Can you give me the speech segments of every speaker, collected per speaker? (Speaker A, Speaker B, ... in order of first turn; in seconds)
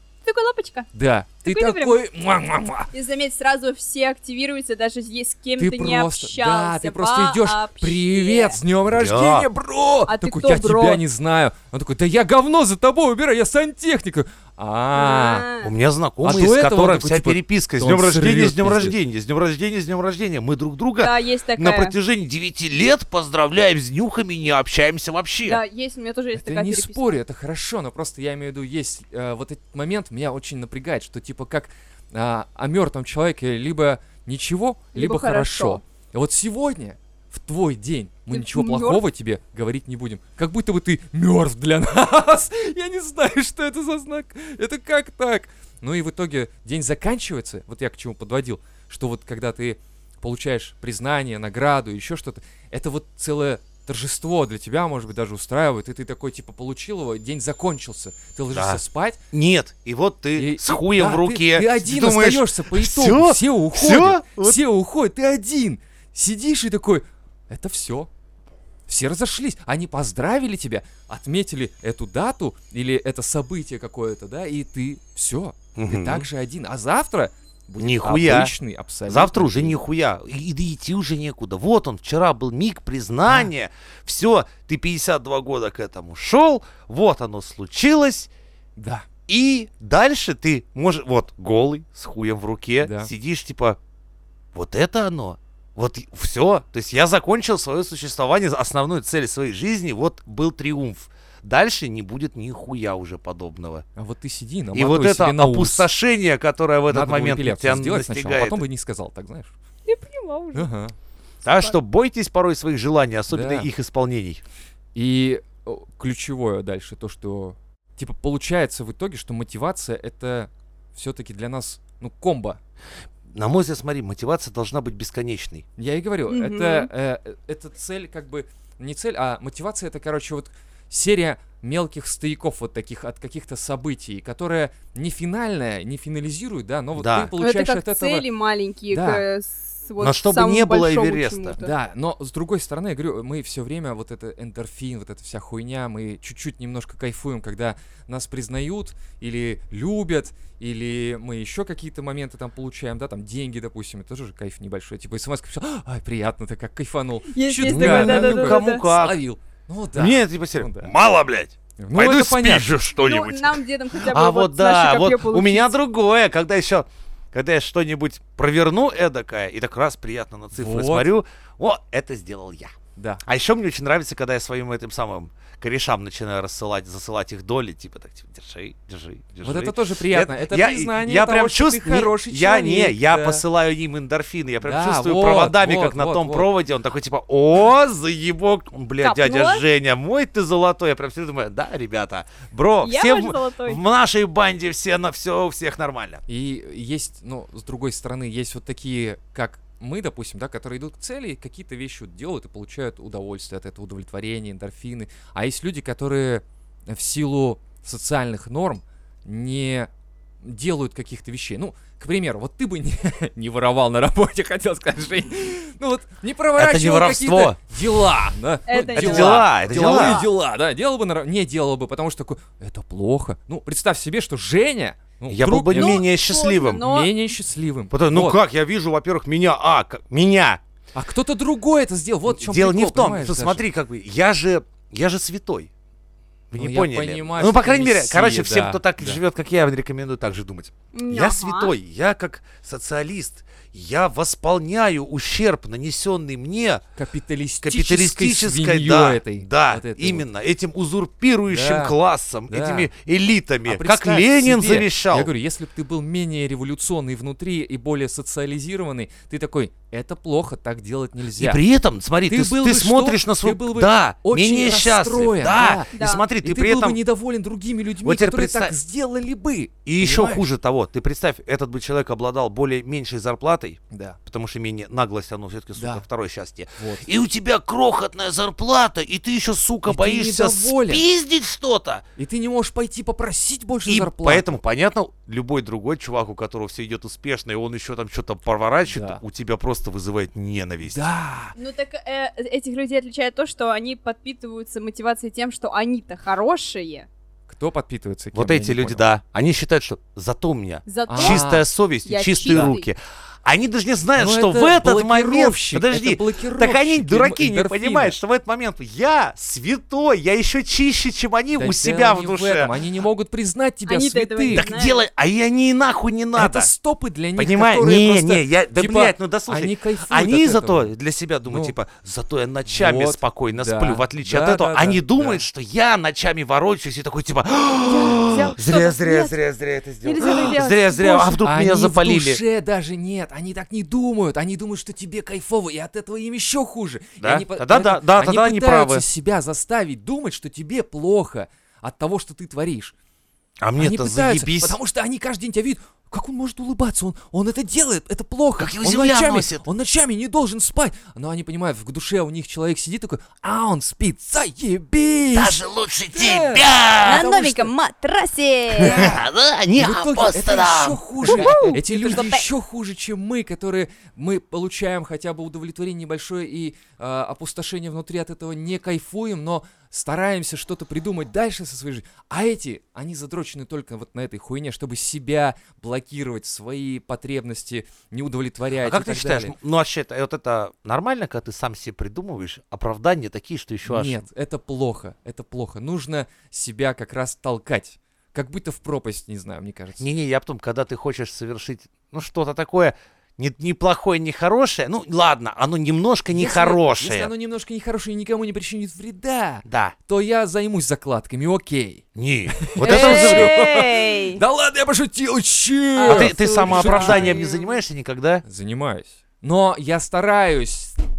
Speaker A: 0.2-0.9, 1.4-2.0, 2.9-8.6, 10.1-11.0, 14.9-15.7, 21.0-21.9, 25.4-27.1, 34.9-35.8, 38.3-39.0, 109.8-110.7, 126.3-126.9, 137.4-141.7, 157.3-158.8, 163.0-165.7, 189.0-189.6, 192.8-193.8, 218.7-220.3, 225.7-227.1, 240.9-241.7, 265.9-266.2, 291.5-297.1, 300.9-301.5, 302.0-302.9, 313.9-315.0, 327.8-329.4, 330.0-331.4, 357.0-359.1, 361.3-362.4, 402.8-404.4, 405.9-407.8
Speaker B: 0.9-2.9, 5.6-15.5, 16.2-19.0, 26.3-59.2, 60.4-68.1, 68.9-79.8, 88.8-89.1, 92.8-93.1, 104.0-105.9, 106.9-109.5, 110.5-110.9, 113.3-113.7, 114.9-122.6, 125.8-138.2, 138.9-139.2, 141.6-160.9, 161.8-162.8, 170.5-171.1, 172.9-173.2, 179.4-183.4, 184.6-186.5, 196.3-209.9, 210.4-226.0, 226.8-228.4, 230.9-233.6, 236.6-239.2, 246.9-250.2, 251.5-251.9, 252.5-252.9, 253.7-261.6, 262.2-270.4, 273.9-274.2, 275.8-276.0, 276.8-277.1, 279.9-281.0, 282.2-284.6, 288.9-289.2, 290.8-291.5, 297.5-299.1, 301.1-301.6, 302.5-302.7, 304.2-308.2, 311.5-314.6, 316.4-320.9, 321.4-321.8, 322.7-325.4, 331.4-342.9, 343.8-355.6, 356.1-357.7, 358.8-359.2, 359.8-379.5, 383.8-390.0, 396.3-407.4, 408.4-411.0
Speaker C: 8.9-9.5, 15.6-25.6, 58.5-58.8, 59.3-64.6, 75.8-76.2, 77.8-78.5, 79.1-88.3, 89.3-93.8, 94.5-103.8, 104.7-108.6, 111.4-114.4, 123.3-125.6, 136.9-137.3, 140.0-141.6, 157.7-159.2, 159.9-196.2, 216.6-217.6, 218.9-220.2, 225.3-226.8, 227.9-230.6, 232.3-235.7, 236.5-246.8, 247.6-255.3, 261.4-267.0, 268.0-268.7, 269.9-282.0, 283.9-291.1, 298.3-312.7, 314.5-316.7, 317.4-332.4, 337.2-339.0, 343.6-344.8, 348.6-349.6, 355.3-357.2, 358.8-361.8, 378.8-384.2, 390.0-397.3, 399.6-399.9, 402.1-403.5, 406.0-408.4